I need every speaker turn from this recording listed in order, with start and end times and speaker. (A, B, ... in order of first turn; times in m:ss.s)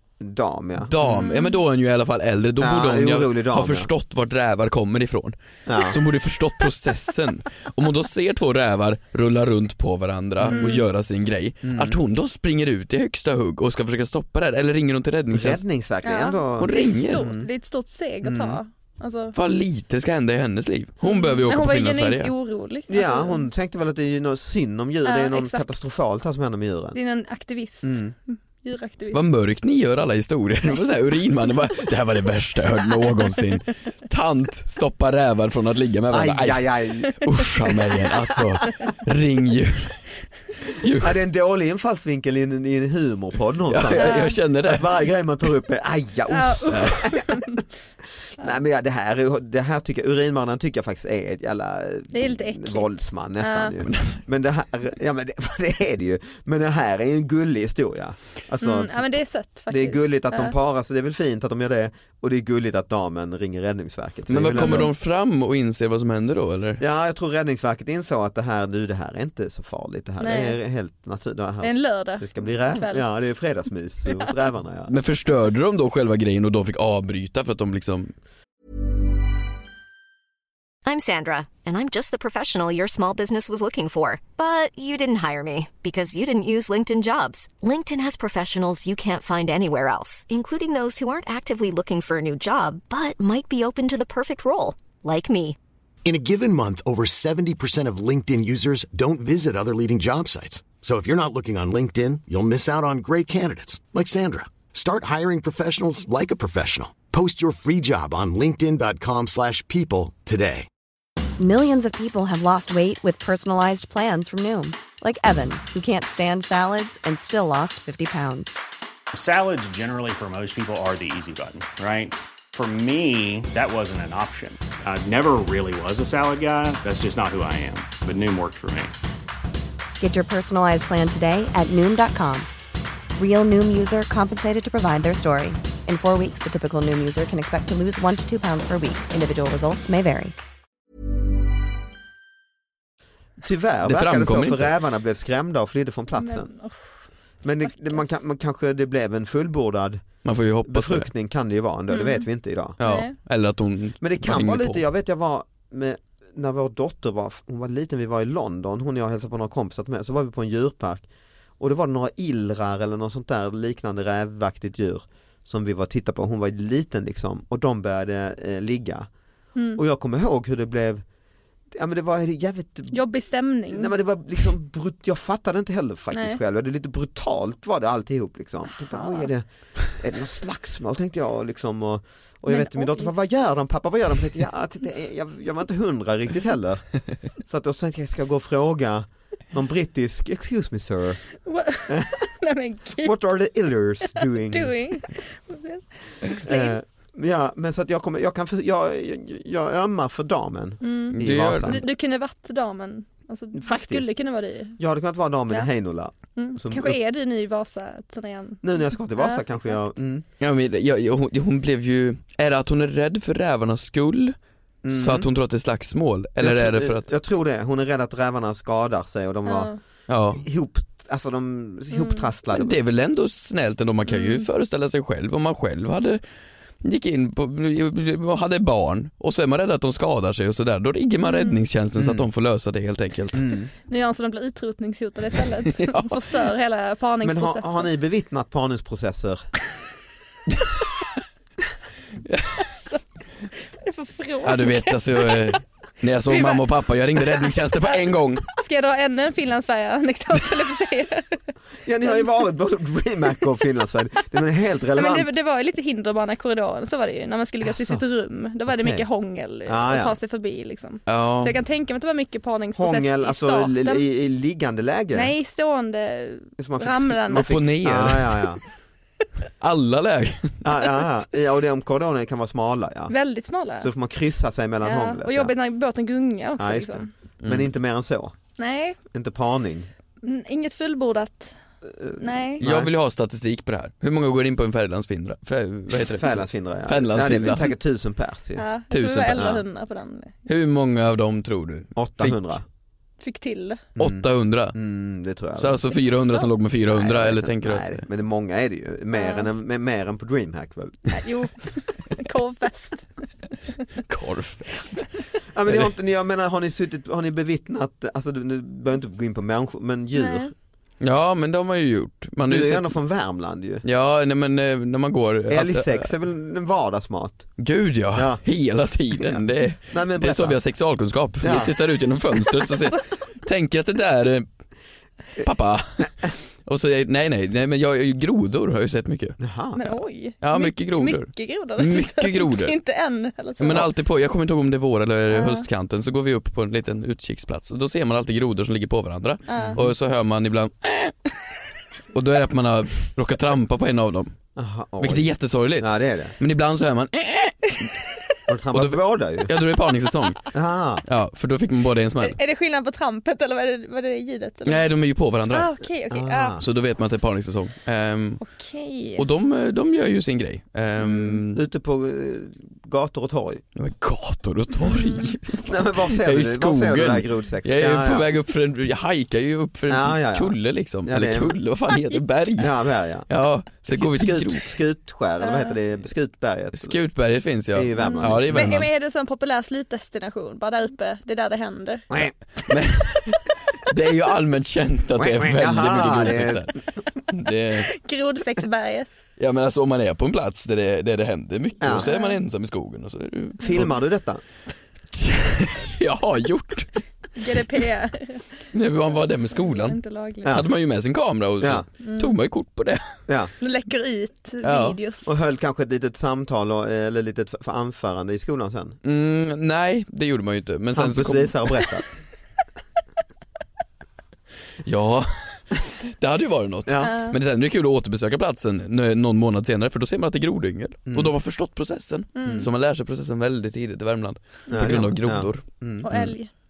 0:00.2-0:01.3 A
0:00.9-0:15.6 B
0:01.2-0:01.6 C
0:02.6-0:03.9 A
0:05.7-0:06.0 A
0:10.4-0:10.7 A
0:10.5-0:10.8 C
0:11.6-0:12.0 A
0:15.3-0:17.5 A
0:16.0-0:19.4 C
0:16.6-0:17.3 B
0:18.2-0:18.6 A
0:19.3-0:22.3 B
0:21.0-0:23.5 C
0:22.9-0:27.0 A
0:25.0-0:25.7 C
0:26.9-0:29.2 C
0:27.8-0:28.1 A
0:29.1-0:40.0 B
0:36.1-0:37.3 A
0:38.0-0:38.4 A
0:40.8-0:41.2 B
0:41.0-0:47.6 A
0:43.7-0:44.9 B
0:44.0-0:44.4 C
0:46.3-0:47.6 C
0:46.7-0:47.0 B
0:48.4-0:59.1 A
0:52.1-0:53.8 C
0:53.8-0:54.2 B
0:58.6-1:00.6 C
0:59.7-1:04.9 A
1:04.3-1:06.8 B
1:06.8-1:14.9 A
1:10.2-1:10.6 C
1:11.6-1:13.0 C
1:14.9-1:18.1 B
1:20.8-1:35.6 D
1:36.0-1:50.7 E
1:51.4-1:58.6 F
1:59.1-2:08.9 G
2:10.0-2:12.5 F
2:13.2-2:20.3 F
2:23.4-2:26.5 A
2:23.8-2:24.7 B
2:26.1-2:28.1 C
2:27.4-2:30.0 A
2:30.2-2:31.1 B
2:30.6-2:32.8 A
2:31.9-2:32.3 C
2:32.8-2:33.1 C
2:32.8-2:34.8 B
2:34.0-2:41.1 A
2:41.6-2:49.1 A
2:49.6-2:49.8 C
2:49.8-2:51.0 A
2:51.7-2:53.0 A
2:52.9-2:53.9 C
2:53.7-3:11.2 A
2:56.1-2:56.4 C
2:58.8-2:59.3 C
3:02.5-3:03.1 C
3:11.4-3:13.2 C
3:11.9-3:12.3 A
3:13.0-3:14.8 A
3:14.0-3:16.8 C
3:16.4-3:21.8 A
3:20.8-3:24.8 C
3:21.2-3:21.8 B
3:23.5-3:24.1 A
3:24.8-3:27.0 A
3:26.4-3:29.9 C
3:28.6-3:30.2 A
3:30.4-3:34.4 B
3:34.8-3:35.3 A
3:34.9-3:37.1 B
3:36.4-3:39.7 A
3:39.5-3:39.8 C
3:40.1-3:40.4 B
3:40.3-3:42.8 A
3:41.9-3:42.3 C
3:42.5-3:46.2 B
3:44.1-3:44.5 C
3:46.8-3:53.5 B
3:51.2-3:51.6 C
3:52.0-3:52.3 A
3:53.4-3:53.7 A
3:53.9-3:57.9 C
3:55.8-3:56.2 B
3:57.2-3:59.5 A
4:02.3-4:02.6 B
4:02.6-4:05.6 C
4:04.4-4:08.5 B
4:06.3-4:06.6 C
4:07.2-4:08.0 C
4:08.5-4:11.4 C
4:11.8-4:15.3 A
4:15.0-4:24.0 C
4:17.6-4:18.0 A
4:18.7-4:19.0 A
4:19.7-4:20.2 A
4:21.1-4:21.6 B
4:22.8-4:25.3 A
4:25.1-4:27.6 C
4:26.6-4:28.6 A
4:27.3-4:28.5 B
4:29.6-4:30.6 B
4:30.6-4:33.2 A
4:33.1-4:33.9 C
4:33.8-4:35.5 A
4:34.8-4:37.1 C
4:36.6-4:38.4 A
4:37.4-4:37.7 B
4:38.6-4:39.0 C
4:39.1-4:39.9 A
4:40.2-4:41.6 C
4:41.8-4:42.9 A
4:42.2-4:42.6 C
4:42.6-4:47.7 B
4:46.1-4:48.7 A
4:48.6-4:50.4 C
4:48.9-4:49.6 B
4:49.4-4:49.6 A
4:50.5-4:52.4 B
4:52.0-4:52.6 A
4:53.2-4:53.8 C
4:54.0-4:56.0 A
4:54.0-4:54.8 B
4:55.6-4:58.0 B
4:56.9-5:01.2 A
4:59.1-4:59.5 C
5:01.1-5:03.1 C
5:04.1-5:05.1 B
5:05.5-5:10.5 A
5:10.2-5:10.5 C
5:11.0-5:12.9 B
5:12.5-5:13.8 A
5:13.8-5:16.1 B
5:15.5-5:17.6 A
5:17.6-5:24.5 B
5:18.1-5:18.4 A
5:19.1-5:20.6 A
5:21.4-5:21.7 A
5:25.4-5:29.4 B
5:29.4-5:29.9 A
5:29.7-5:33.9 C
5:30.4-5:32.8 B
5:33.6-5:41.2 B
5:35.3-5:35.7 C
5:39.5-5:39.8 C
5:39.6-5:39.8 A
5:42.1-5:44.4 B
5:44.6-5:46.4 A
5:45.0-5:47.9 B
5:48.5-5:49.5 A
5:48.7-5:50.4 B
5:50.5-5:51.0 A
5:51.1-5:52.4 B
5:52.2-5:54.8 C
5:54.6-5:55.8 B
5:55.5-5:56.6 C
5:56.1-5:56.7 A
5:56.6-5:58.4 B
5:58.4-5:59.2 C
5:59.2-6:01.6 B
6:01.5-6:03.6 A
6:03.8-6:12.7 B
6:04.8-6:05.3 C
6:05.6-6:08.3 A
6:09.9-6:11.6 A
6:12.6-6:13.3 A
6:13.3-6:14.6 B
6:13.9-6:17.0 A
6:15.4-6:15.8 C
6:16.7-6:18.9 B
6:17.7-6:18.8 A
6:18.0-6:22.1 C
6:22.1-6:22.4 A
6:22.7-6:26.7 B
6:25.2-6:27.0 A
6:27.3-6:27.9 B
6:27.7-6:29.1 C
6:29.4-6:33.9 B
6:31.8-6:32.1 A
6:32.0-6:32.4 C
6:33.6-6:34.4 A
6:35.1-6:37.0 B
6:37.4-6:38.6 C
6:38.7-6:43.0 B
6:39.5-6:40.6 C
6:40.4-6:40.7 A
6:41.6-6:41.9 A
6:42.0-6:42.4 C
6:43.6-6:45.4 C
6:44.6-6:45.0 B
6:45.3-6:49.0 A
6:49.0-6:51.8 B
6:50.9-6:52.0 A
6:54.8-7:06.3 B
6:56.9-6:57.2 A
6:57.0-6:57.3 C
7:01.1-7:01.3 A
7:02.4-7:02.7 C
7:04.7-7:05.0 C
7:04.7-7:06.1 A
7:06.0-7:06.5 C